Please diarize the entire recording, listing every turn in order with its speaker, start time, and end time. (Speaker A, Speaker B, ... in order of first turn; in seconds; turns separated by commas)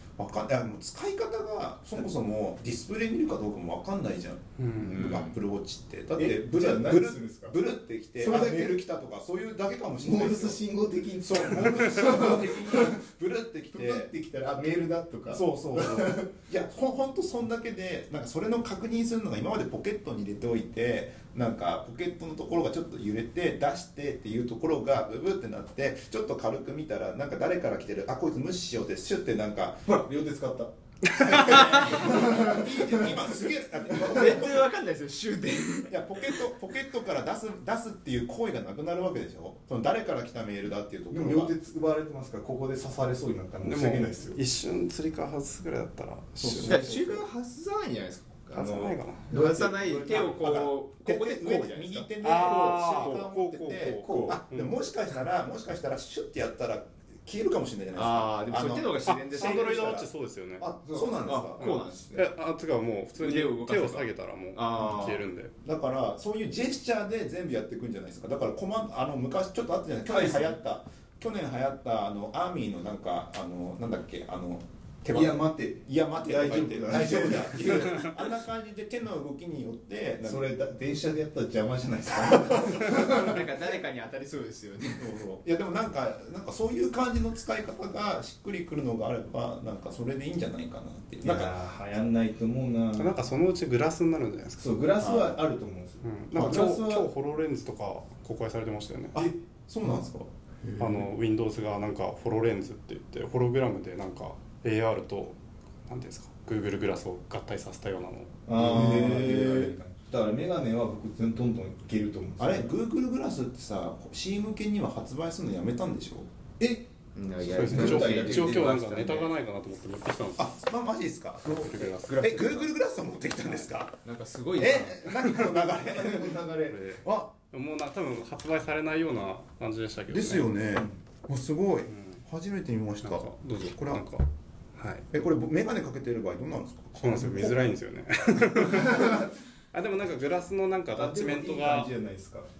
Speaker A: 0.2-10.6, Speaker B: 4.6-5.2, Speaker C: 4.8-5.4, Speaker D: 6.1-7.6, Speaker D: 8.2-8.8, Speaker D: 10.0-13.2, Speaker A: 11.2-14.1, Speaker D: 13.7-16.3, Speaker A: 15.3-29.9, Speaker D: 29.9-33.3, Speaker C: 31.3-32.2, Speaker A: 31.6-34.7, Speaker C: 34.1-36.4, Speaker A: 35.9-41.5, Speaker D: 41.1-44.4, Speaker B: 43.6-46.9, Speaker A: 46.4-47.2, Speaker C: 46.6-53.3, Speaker B: 48.5-49.3, Speaker A: 49.3-62.0, Speaker D: 49.3-50.2, Speaker B: 52.2-54.8, Speaker D: 52.4-52.8, Speaker D: 53.9-54.4, Speaker C: 57.9-60.0, Speaker B: 59.0-60.6, Speaker D: 60.9-61.2, Speaker C: 61.2-62.3, Speaker B: 61.6-65.5, Speaker C: 63.1-65.2, Speaker A: 65.6-80.5, Speaker D: 70.1-70.6, Speaker D: 75.1-78.0, Speaker D: 80.2-83.4, Speaker C: 82.9-85.2, Speaker A: 85.0-91.5, Speaker D: 91.2-93.1, Speaker B: 93.0-94.7, Speaker D: 94.6-97.1, Speaker A: 95.0-95.4, Speaker B: 96.0-99.2, Speaker A: 96.3-96.6, Speaker A: 99.1-101.1, Speaker B: 100.8-108.5, Speaker D: 108.5-112.8, Speaker A: 108.5-109.8, Speaker A: 112.4-116.3, Speaker D: 116.6-118.8, Speaker C: 117.1-119.3, Speaker B: 117.5-120.5, Speaker A: 120.4-124.0, Speaker B: 121.4-122.8, Speaker C: 122.1-122.4, Speaker C: 124.0-125.2, Speaker A: 124.6-127.3, Speaker D: 124.6-126.8, Speaker B: 126.7-130.6, Speaker A: 130.1-134.0, Speaker D: 130.7-131.0, Speaker B: 131.9-132.2, Speaker B: 133.0-135.1, Speaker A: 135.1-137.7, Speaker B: 137.0-141.9, Speaker D: 138.8-139.3, Speaker D: 140.9-142.5